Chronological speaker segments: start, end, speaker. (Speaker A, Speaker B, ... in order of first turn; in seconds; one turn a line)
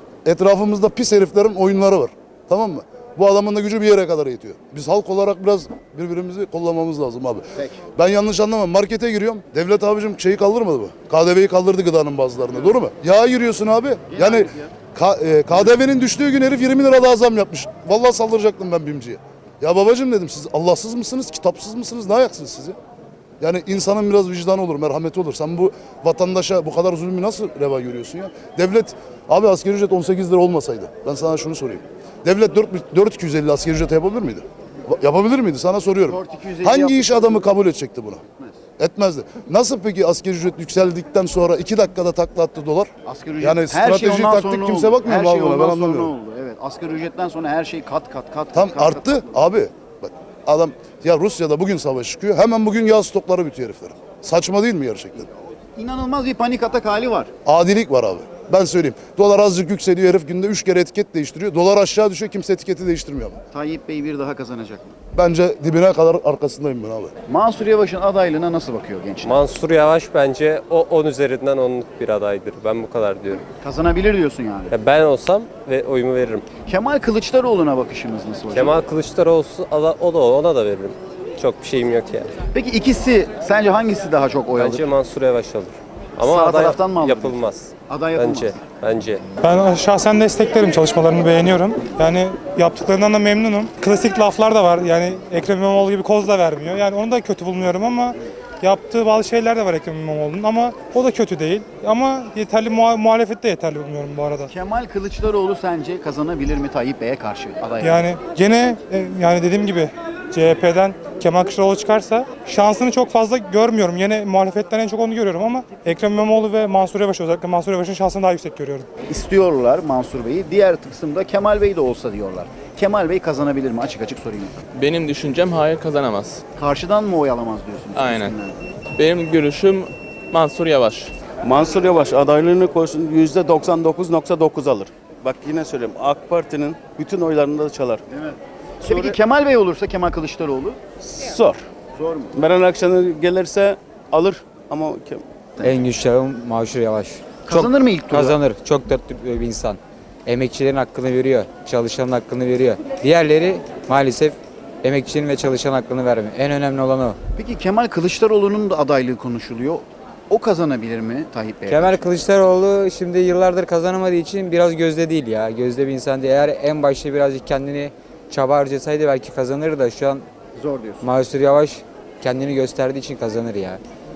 Speaker A: 0.2-22.8
Speaker B: 7.5-7.8
Speaker B: 14.1-14.7
Speaker A: 23.4-38.2
Speaker B: 36.0-37.6
Speaker A: 38.8-46.1
Speaker B: 43.0-49.4
Speaker A: 48.5-55.2
Speaker B: 55.2-57.3
Speaker A: 57.4-63.4
Speaker B: 63.5-65.0
Speaker A: 65.1-67.1
Speaker B: 67.3-69.5
Speaker C: 69.2-73.4
Speaker B: 73.6-74.7
Speaker C: 74.7-76.5
Speaker B: 76.6-78.8
Speaker C: 78.5-82.3
Speaker B: 82.5-84.9
Speaker C: 84.6-89.2
Speaker B: 86.2-88.6
Speaker D: 89.4-104.5
Speaker B: 104.5-108.1
Speaker D: 107.8-118.9
Speaker B: 119.1-124.6
Speaker E: 124.8-126.4
Speaker B: 126.5-128.6
Speaker E: 128.0-128.3
Speaker E: 129.0-131.1
Speaker F: 131.4-138.0
Speaker B: 138.1-140.8
Speaker F: 138.8-139.2
Speaker F: 141.0-141.6
Speaker B: 141.9-142.3
Speaker F: 142.3-145.2
Speaker G: 145.6-157.2
Speaker B: 147.4-148.4
Speaker B: 157.3-162.2
Speaker G: 161.7-170.2
Speaker B: 170.6-171.1
Speaker G: 171.0-173.8